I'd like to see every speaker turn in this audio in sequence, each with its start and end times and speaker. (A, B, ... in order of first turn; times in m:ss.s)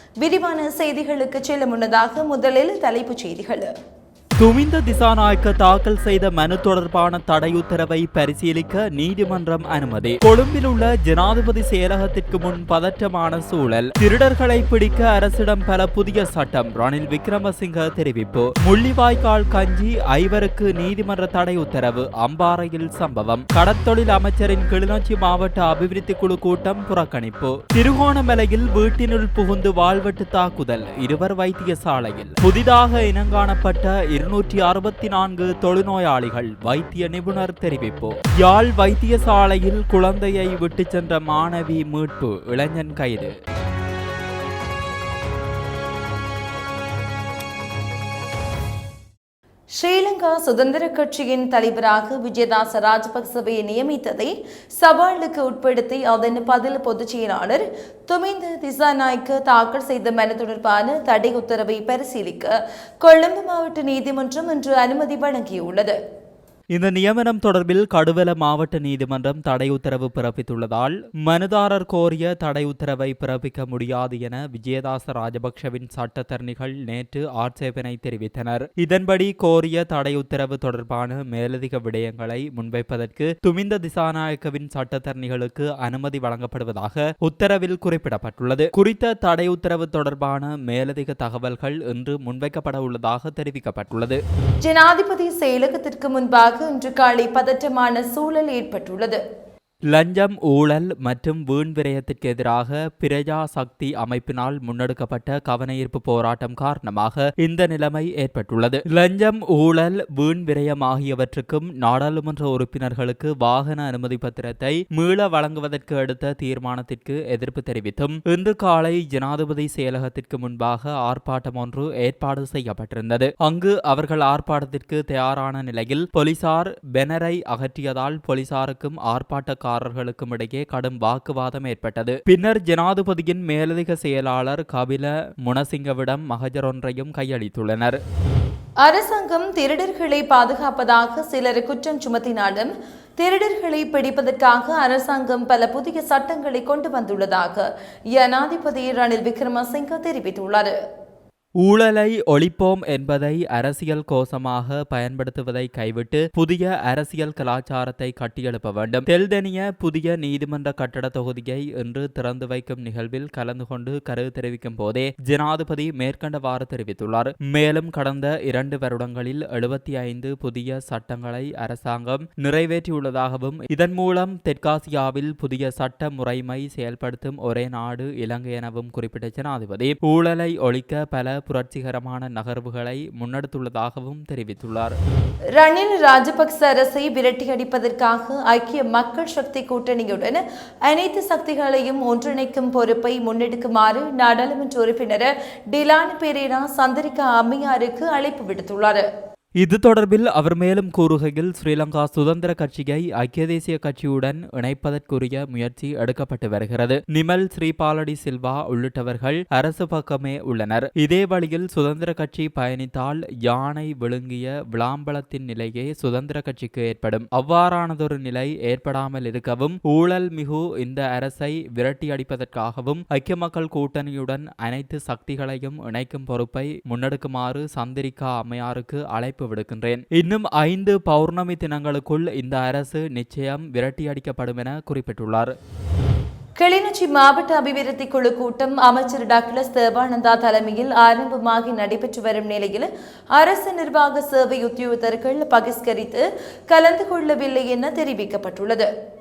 0:00.2-0:03.7 A
0:04.4-0:43.3 B
0:49.8-1:02.5 A
1:03.0-1:06.0 A
1:06.7-1:34.2 B
1:34.6-1:39.2 A
1:39.9-2:18.0 B
2:18.8-2:30.7 A
2:31.6-3:05.0 B
3:05.6-3:19.0 A
3:19.6-3:55.5 B
3:56.6-4:08.9 A